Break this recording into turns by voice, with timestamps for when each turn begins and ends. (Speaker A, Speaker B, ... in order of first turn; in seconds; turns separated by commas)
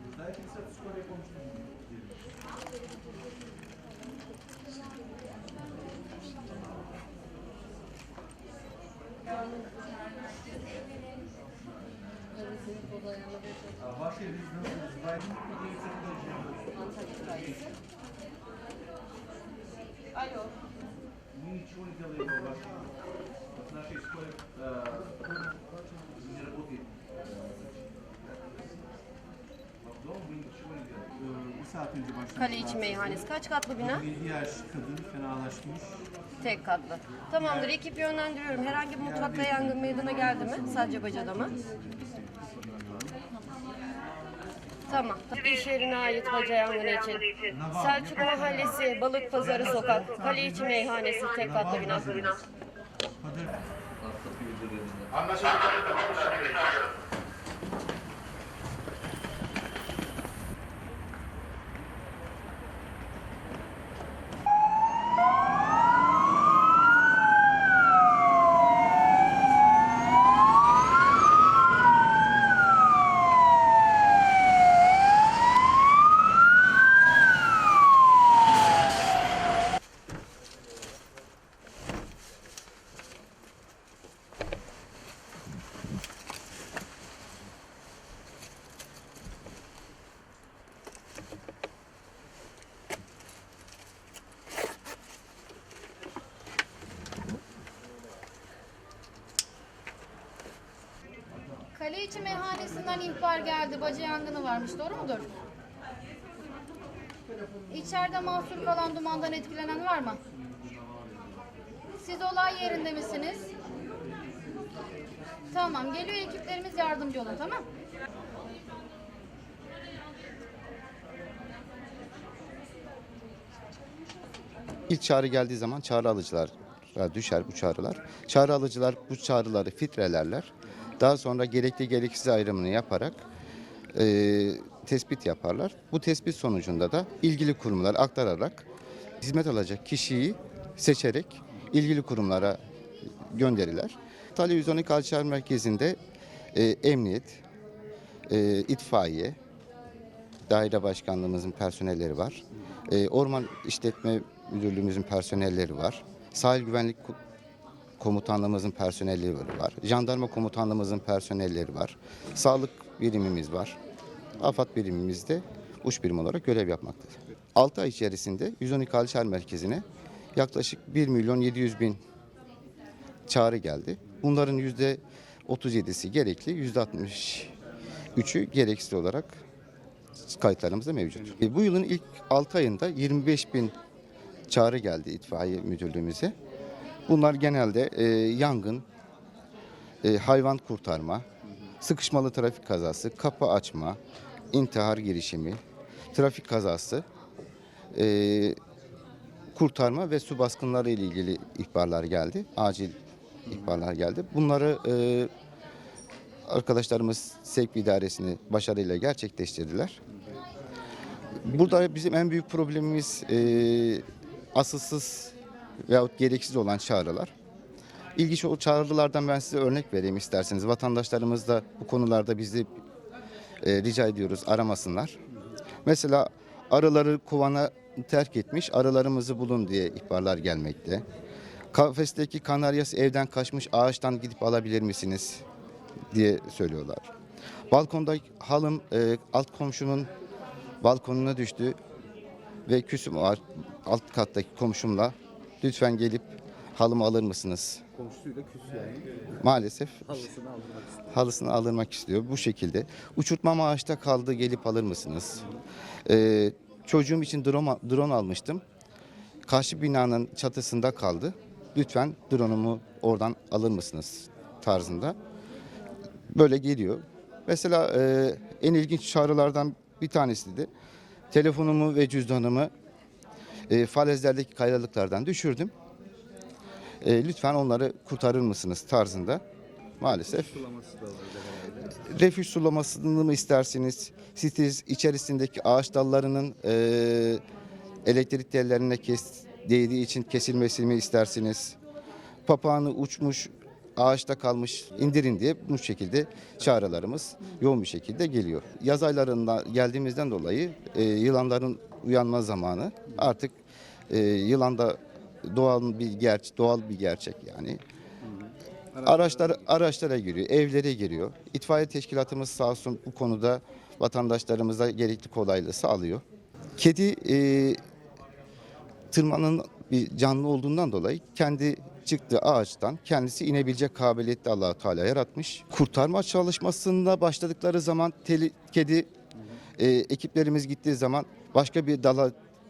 Speaker A: 0.2-1.6, Speaker A: 13.9-16.8, Speaker A: 21.4-22.9, Speaker A: 23.8-25.1, Speaker A: 26.1-26.9, Speaker A: 30.0-32.2, Speaker B: 32.1-34.1, Speaker A: 34.0-36.0, Speaker B: 36.4-41.6, Speaker A: 41.8-42.7, Speaker C: 42.8-43.1, Speaker B: 44.9-52.4, Speaker A: 54.2-55.3, Speaker D: 101.7-105.3, Speaker D: 107.7-110.2, Speaker D: 111.9-113.5, Speaker D: 115.5-117.7, Speaker E: 124.9-133.2, Speaker E: 133.9-138.7, Speaker E: 139.2-142.6, Speaker E: 143.3-146.0, Speaker E: 146.5-147.4, Speaker E: 148.3-149.4, Speaker E: 150.5-157.2, Speaker E: 158.0-163.8, Speaker E: 164.4-169.8, Speaker E: 170.4-172.0, Speaker E: 173.3-177.5, Speaker E: 178.2-179.4, Speaker E: 180.3-183.8, Speaker E: 184.5-186.3, Speaker E: 187.1-188.8, Speaker E: 190.0-191.2, Speaker E: 191.8-194.0, Speaker E: 194.5-195.6, Speaker E: 196.1-197.1, Speaker E: 197.9-198.6, Speaker E: 199.6-205.3, Speaker E: 206.5-210.0, Speaker E: 211.4-215.3, Speaker E: 215.9-217.3, Speaker E: 218.2-222.7, Speaker E: 223.6-225.2, Speaker E: 225.8-231.0, Speaker E: 231.7-235.4, Speaker E: 236.1-237.1, Speaker E: 237.7-240.1, Speaker E: 240.8-241.8, Speaker E: 242.7-247.8, Speaker C: 248.0-249.2, Speaker E: 249.4-250.3, Speaker C: 250.2-251.1, Speaker E: 251.1-255.5, Speaker E: 256.1-258.6, Speaker E: 259.5-265.2, Speaker E: 266.3-270.7, Speaker E: 271.3-272.7, Speaker E: 273.7-275.7, Speaker E: 277.0-279.4, Speaker E: 280.0-280.7, Speaker C: 280.4-282.0, Speaker E: 282.1-287.4, Speaker E: 288.1-291.8, Speaker E: 292.5-303.5, Speaker E: 304.1-307.8, Speaker C: 308.9-309.2, Speaker E: 309.0-316.2, Speaker E: 316.8-317.8, Speaker E: 319.1-329.1, Speaker E: 329.8-332.4